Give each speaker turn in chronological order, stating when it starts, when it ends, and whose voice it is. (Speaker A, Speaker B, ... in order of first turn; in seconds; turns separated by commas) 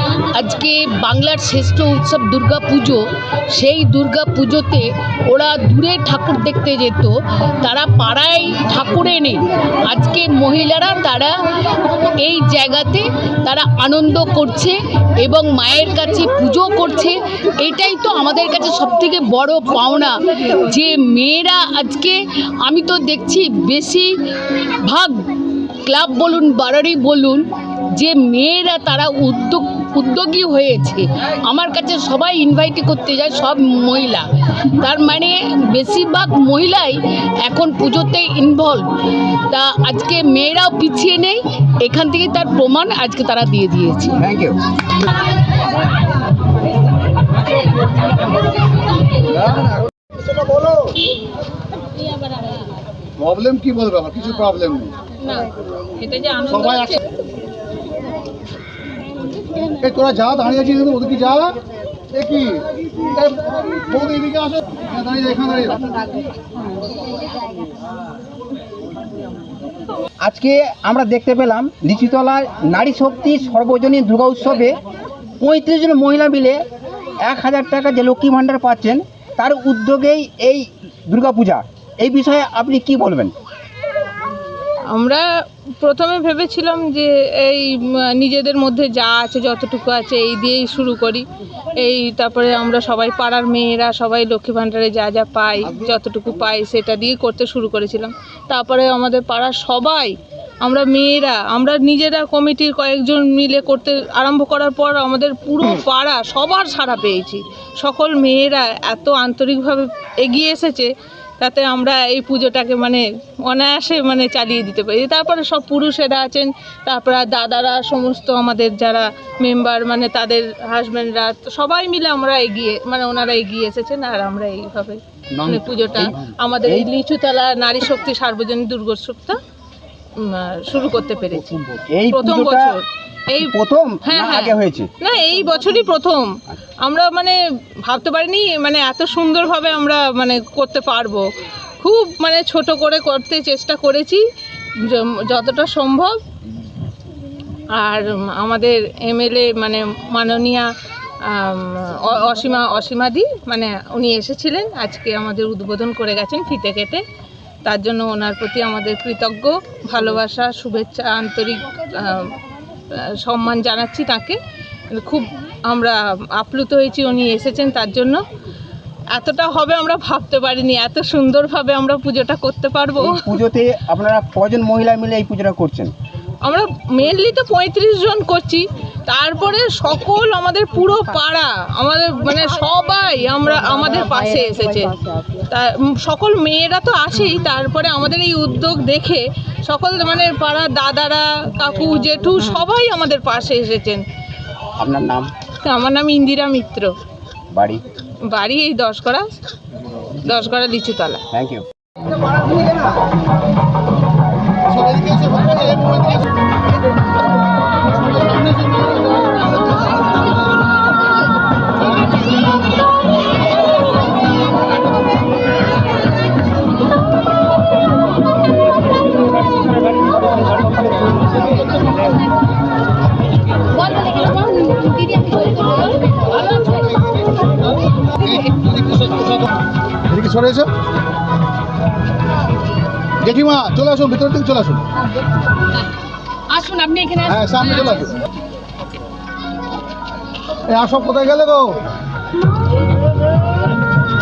Speaker A: 0.3-25.2, Speaker A: 25.9-34.2, Speaker A: 34.8-38.9, Speaker A: 39.5-44.2, Speaker B: 44.1-44.6, Speaker C: 53.2-54.9, Speaker D: 55.2-57.0, Speaker C: 59.8-61.6, Speaker C: 62.1-65.8, Speaker B: 70.2-74.8, Speaker B: 75.4-76.6, Speaker B: 77.2-83.3, Speaker D: 84.9-85.2, Speaker D: 85.8-91.2, Speaker D: 91.8-129.4, Speaker B: 125.3-126.1, Speaker D: 130.2-131.6, Speaker B: 131.9-132.7, Speaker D: 132.1-133.5, Speaker B: 133.4-134.9, Speaker D: 134.1-141.2, Speaker D: 141.8-144.2, Speaker D: 144.8-146.2, Speaker D: 147.7-150.7, Speaker D: 151.2-157.0, Speaker D: 157.6-162.3, Speaker D: 162.9-164.4, Speaker D: 164.9-168.2, Speaker D: 169.1-173.3, Speaker B: 173.0-175.9, Speaker D: 176.4-194.0, Speaker B: 194.8-195.3, Speaker D: 195.6-196.9, Speaker B: 197.5-197.8, Speaker D: 198.3-199.3, Speaker D: 200.2-201.2, Speaker B: 201.3-201.6, Speaker C: 204.7-206.2, Speaker C: 208.0-209.5, Speaker D: 223.8-226.6, Speaker C: 226.6-227.4, Speaker C: 228.2-229.4, Speaker C: 230.1-230.7, Speaker C: 233.2-234.8, Speaker A: 236.5-237.9, Speaker C: 237.3-238.2, Speaker C: 240.7-241.8